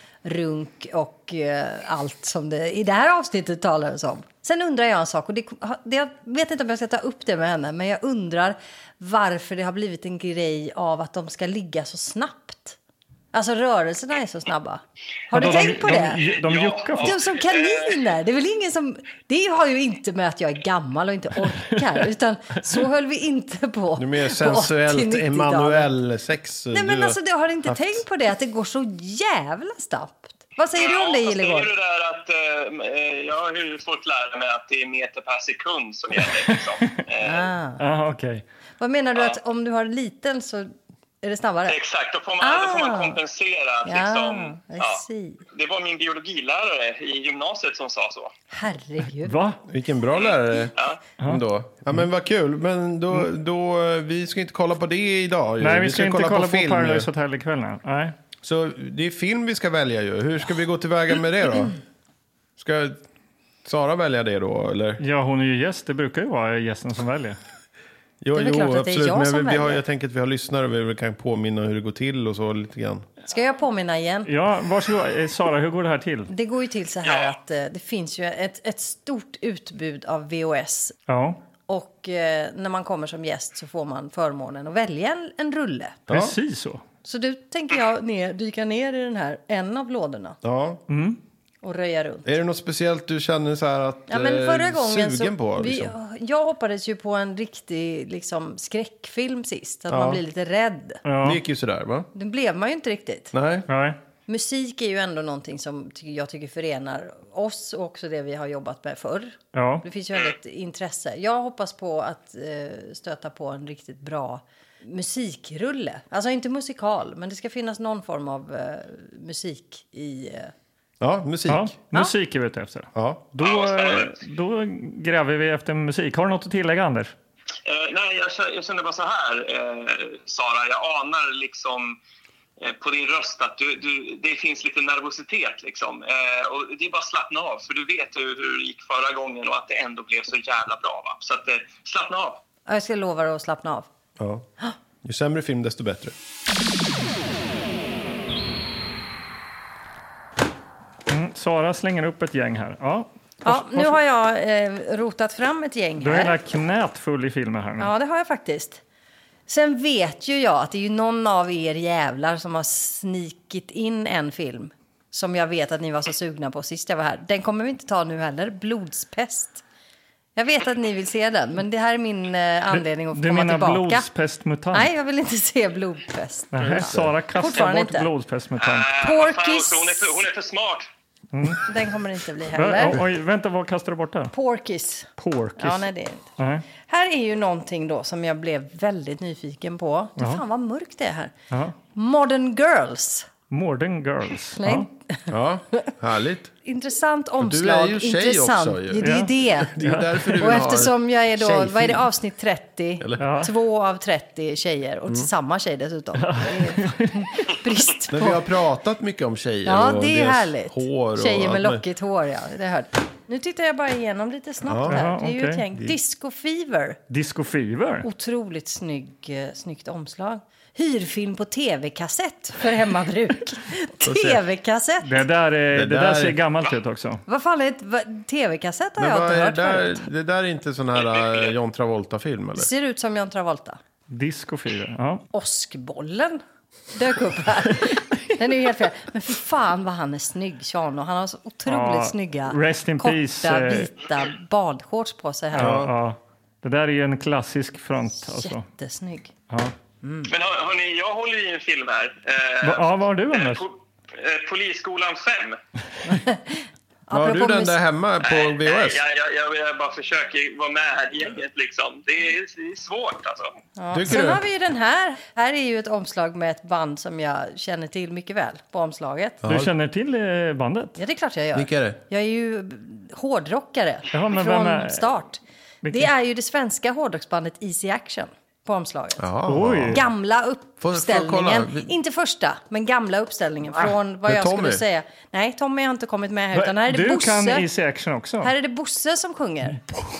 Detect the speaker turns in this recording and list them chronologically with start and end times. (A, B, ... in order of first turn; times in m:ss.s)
0:00.2-0:12.8 A
0:13.3-0:16.2 A
0:15.3-0:17.1 B
0:16.1-0:18.0 C
0:17.0-0:25.9 A
0:24.0-0:28.0 D
0:26.7-0:31.7 A
0:30.7-0:37.5 C
0:37.2-0:37.8 A
0:37.8-0:38.4 B
0:38.8-0:40.7 A
0:41.2-0:41.8 A
0:41.7-0:48.3 C
0:42.4-0:43.2 A
0:43.8-0:45.4 A
0:48.5-0:49.4 A
0:49.2-0:49.6 B
0:49.7-0:57.1 D
0:50.2-0:51.0 C
0:51.2-0:52.1 B
0:55.6-0:58.2 B
0:58.4-1:01.8 D
1:02.6-1:03.0 D
1:03.6-1:05.0 D
1:05.0-1:07.4 B
1:08.2-1:13.0 D
1:08.3-1:09.8 A
1:13.3-1:14.3 A
1:14.2-1:16.3 B
1:16.3-1:21.0 A
1:17.0-1:17.3 C
1:21.1-1:21.4 B
1:21.7-1:26.0 A
1:26.1-1:26.4 D
1:26.1-1:26.8 B
1:27.0-1:30.4 A
1:30.4-1:30.8 D
1:30.9-1:31.2 B
1:31.6-1:32.3 A
1:32.2-1:35.9 D
1:34.1-1:41.0 A
1:39.9-1:40.2 D
1:41.0-1:41.4 B
1:41.2-1:42.1 D
1:42.1-1:43.3 A
1:43.3-1:43.7 D
1:43.7-1:44.0 B
1:44.3-2:00.5 A
1:49.5-1:49.8 B
2:01.0-2:01.7 D
2:01.5-2:07.1 B
2:02.9-2:03.2 D
2:03.4-2:04.2 C
2:07.6-2:12.0 C
2:12.6-2:22.4 C
2:22.7-2:23.9 A
2:24.2-2:24.4 D
2:25.0-2:26.1 D
2:31.1-2:34.0 B
2:33.4-2:36.4 A
2:36.0-2:37.9 B
2:37.8-2:38.8 A
2:39.5-2:49.6 A
2:50.4-2:54.1 A
2:52.7-2:54.9 B
2:54.7-2:58.1 A
2:56.5-2:58.9 B
2:56.6-2:57.2 D
2:58.6-3:00.9 C
2:59.0-3:00.2 A
3:01.3-3:01.7 B
3:01.6-3:03.0 A
3:02.5-3:04.3 B
3:04.3-3:11.3 A
3:05.2-3:05.8 B
3:06.4-3:06.6 B
3:11.5-3:11.8 B
3:11.9-3:13.3 A
3:13.5-3:14.9 B
3:14.6-3:15.9 A
3:15.3-3:16.5 D
3:16.6-3:19.8 A
3:17.4-3:22.1 D
3:19.0-3:20.6 B
3:20.3-3:28.5 A
3:23.2-3:23.5 B
3:26.2-3:27.3 B
3:28.1-3:31.8 D
3:29.6-3:37.0 A
3:34.6-3:35.0 D
3:34.9-3:35.6 B
3:37.1-3:38.1 B
3:38.0-3:45.2 A
3:44.0-3:44.4 D
3:45.0-3:47.2 B
3:45.7-3:46.4 D
3:47.3-3:50.1 A
3:49.0-3:52.7 D
3:52.6-3:53.8 A
3:54.1-3:55.2 B
3:55.3-4:05.8 A
4:01.7-4:03.9 B
4:05.5-4:08.6 B
4:05.6-4:05.9 D
4:08.2-4:09.3 A
4:09.5-4:09.7 B
4:10.0-4:10.3 A
4:10.3-4:15.6 C
4:12.6-4:13.6 B
4:16.0-4:17.8 A
4:17.1-4:19.0 D
4:18.2-4:23.5 C
4:23.8-4:29.4 A
4:23.9-4:24.4 D
4:29.4-4:29.7 D
4:29.5-4:31.0 B
4:31.0-4:39.3 A
4:31.5-4:32.0 D
4:34.1-4:35.0 B
4:35.8-4:36.1 B
4:39.2-4:40.0 D
4:39.4-4:40.0 B
4:39.9-4:47.7 A
4:40.8-4:41.9 D
4:44.2-4:44.8 D
4:46.5-4:48.5 B
4:48.4-4:49.8 A